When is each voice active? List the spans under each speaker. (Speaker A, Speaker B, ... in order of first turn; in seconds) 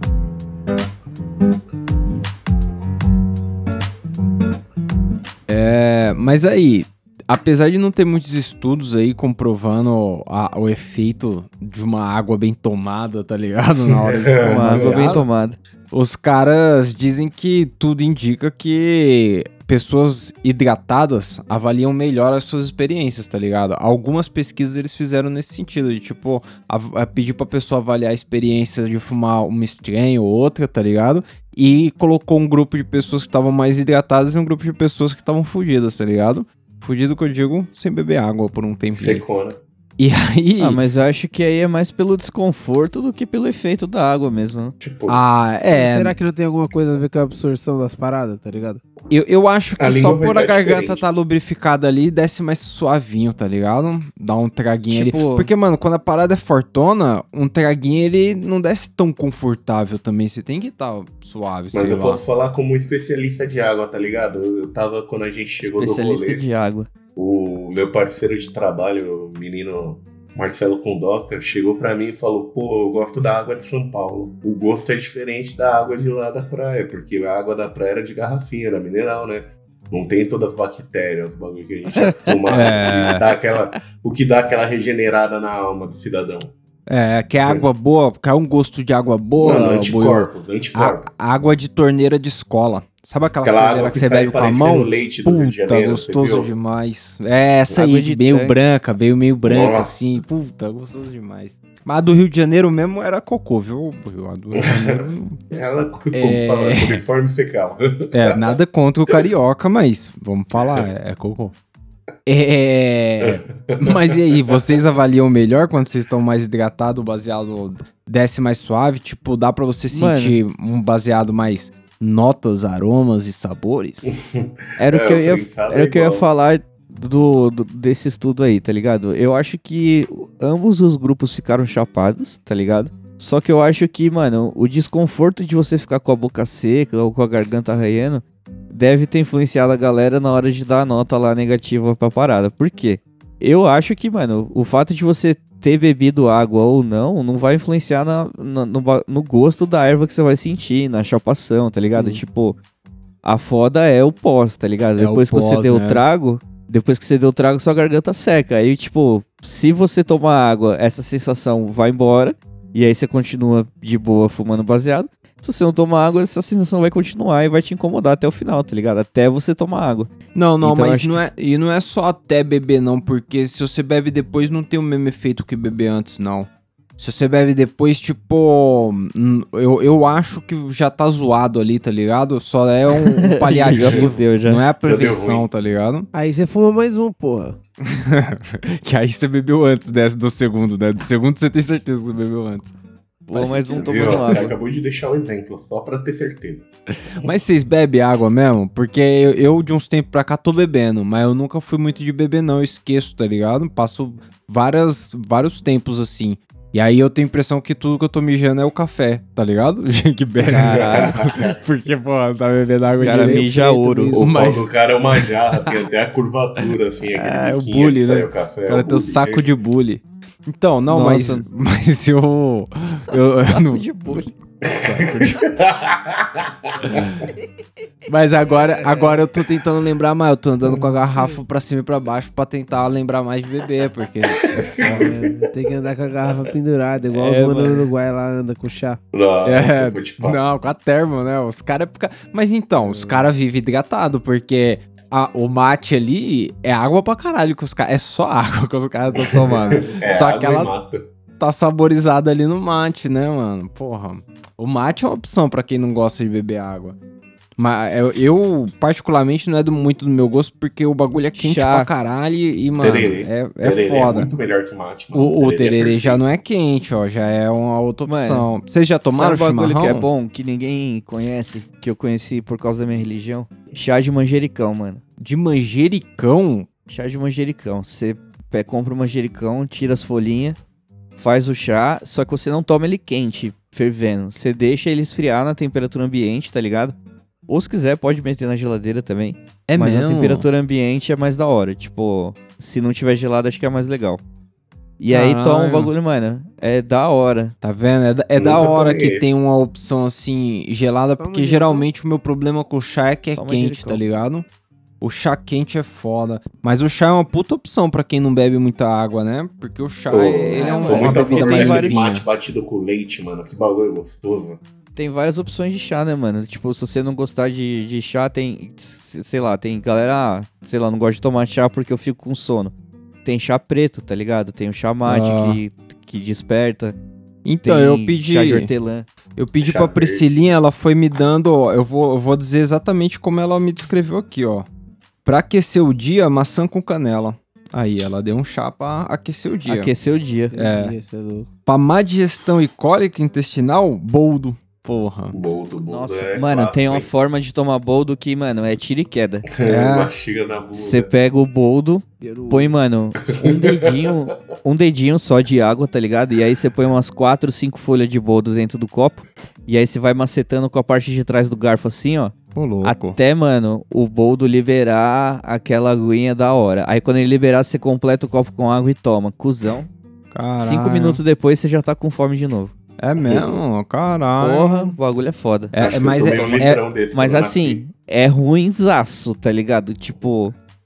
Speaker A: 5.5-15.2, 15.9-39.2, 40.0-40.8, 45.1-46.1, 49.1-62.2, 82.5-83.3, 86.9-105.4, 106.1-107.0, 108.1-111.5, 112.2-124.1, 155.0-156.0, 170.3-186.1, 187.8-192.7, 197.1-213.5, 214.2-214.7, 217.1-223.8, 224.7-225.4, 226.8-227.3, 228.1-235.0, 239.4-250.7, 251.4-256.9, 257.6-264.3, 265.1-270.1, 275.2-276.7, 289.7-290.5, 295.1-295.9, 297.6-304.4, 305.0-312.2, 325.0-325.6, 327.4-328.7, 329.4-334.7, 335.2-339.9, 340.5-340.9, 341.6-345.4, 349.6-350.1, 362.5-363.2, 370.3-371.2, 373.0-374.9, 375.7-376.8
Speaker B: 13.9-15.2, 38.9-39.6, 44.8-45.2, 49.8-51.0, 61.7-66.4, 67.1-86.5, 89.4-91.2, 93.4-96.5, 99.4-100.2, 104.7-108.4, 110.6-110.8, 113.2-114.5, 124.0-126.2, 183.7-184.1, 184.8-185.5, 193.4-196.7, 210.5-211.8, 214.1-219.6, 224.6-227.2, 234.8-235.2, 239.1-240.4, 249.2-251.0, 262.8-266.2, 298.4-299.4, 310.1-314.6, 329.6-330.3, 345.3-347.1, 349.6-351.1, 353.4-354.1, 375.7-377.8
Speaker C: 14.4-15.6, 40.6-44.7, 54.9-55.5, 65.7-66.9, 97.7-98.5, 119.9-120.4, 124.8-152.6, 153.2-171.2, 183.2-184.6, 193.3-194.5, 210.5-210.9, 213.0-214.2, 220.9-221.4, 223.1-224.3, 237.1-237.9, 261.4-261.9, 268.1-268.5, 269.1-275.0, 276.9-280.6, 281.2-286.9, 287.5-294.2, 295.0-297.5, 303.3-304.0, 310.4-312.0, 314.9-322.7, 323.2-327.0, 327.6-329.1, 339.7-340.5, 345.9-349.5, 350.7-369.9, 370.6-372.7, 374.4-375.7, 377.1-380.5
Speaker D: 45.7-48.8, 151.9-152.2, 186.1-187.6, 213.0-214.3, 234.8-239.0, 242.8-243.3, 301.2-301.9, 340.5-341.5, 352.2-352.7